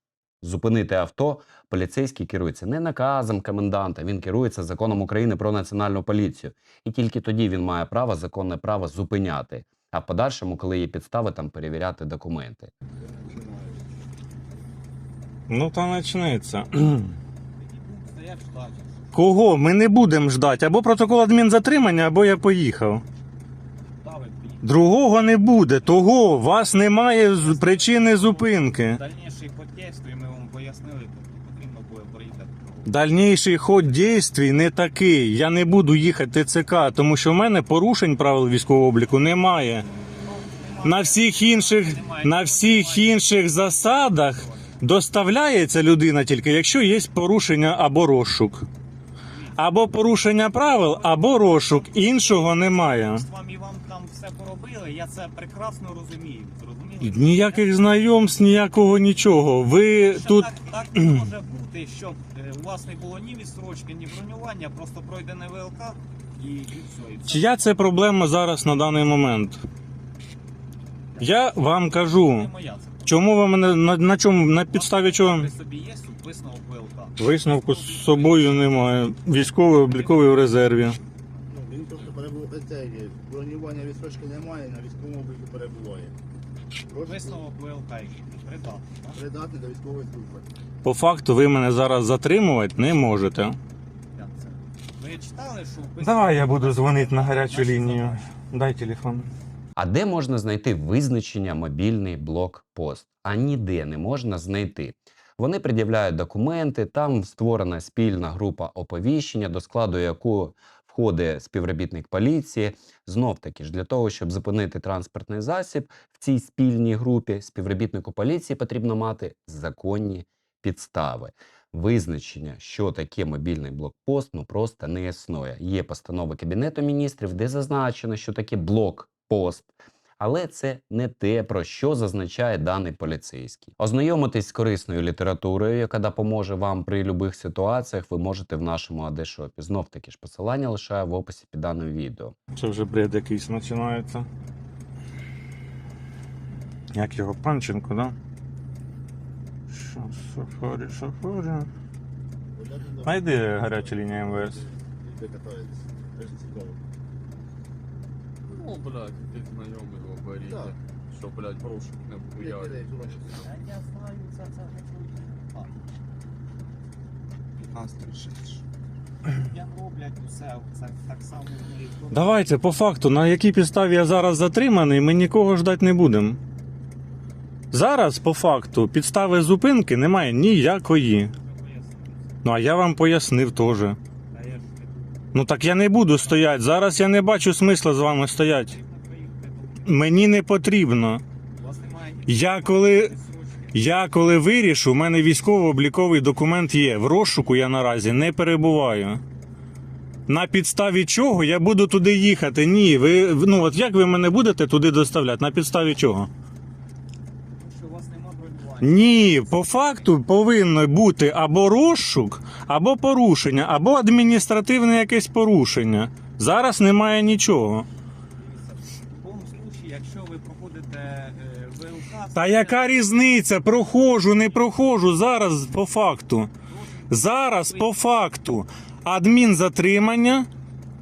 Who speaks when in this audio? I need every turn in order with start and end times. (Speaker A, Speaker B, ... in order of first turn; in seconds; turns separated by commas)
Speaker A: 0.4-12.7, Speaker B: 13.0-13.8, Speaker C: 15.5-17.1, Speaker D: 17.6-19.0, Speaker C: 19.1-23.0, Speaker D: 24.0-24.7, Speaker C: 24.6-29.0, Speaker D: 25.8-32.9, Speaker C: 32.9-39.9, Speaker D: 40.2-44.8, Speaker C: 40.8-48.7, Speaker D: 49.2-49.6, Speaker C: 49.6-53.2, Speaker D: 50.6-57.7, Speaker C: 57.0-61.2, Speaker D: 60.0-67.6, Speaker C: 67.3-69.6, Speaker D: 71.1-73.2, Speaker C: 71.2-72.5, Speaker C: 73.1-75.5, Speaker D: 74.7-80.5, Speaker C: 77.2-81.0, Speaker B: 81.5-86.1, Speaker D: 86.9-89.3, Speaker B: 89.2-90.5, Speaker C: 90.8-93.6, Speaker D: 94.2-98.3, Speaker C: 96.0-99.3, Speaker A: 99.8-142.3, Speaker C: 142.6-144.3, Speaker C: 146.9-148.2, Speaker C: 149.7-151.7, Speaker B: 152.6-153.1, Speaker C: 153.0-154.6, Speaker B: 154.5-156.8, Speaker E: 158.5-163.5, Speaker B: 162.6-163.2, Speaker D: 163.4-165.7, Speaker D: 167.6-168.5, Speaker D: 169.3-172.4, Speaker C: 172.1-176.4, Speaker C: 177.7-181.3, Speaker D: 181.2-182.4, Speaker C: 182.4-184.0, Speaker D: 184.3-185.3, Speaker C: 185.3-188.8, Speaker D: 186.1-186.6, Speaker D: 188.6-190.2, Speaker C: 189.9-191.2, Speaker D: 191.5-193.8, Speaker C: 192.3-193.1, Speaker C: 193.7-199.2, Speaker C: 200.3-206.3, Speaker D: 207.5-210.1, Speaker C: 208.8-217.9, Speaker D: 218.4-223.7, Speaker C: 222.3-226.5, Speaker D: 226.7-228.0, Speaker C: 227.1-230.5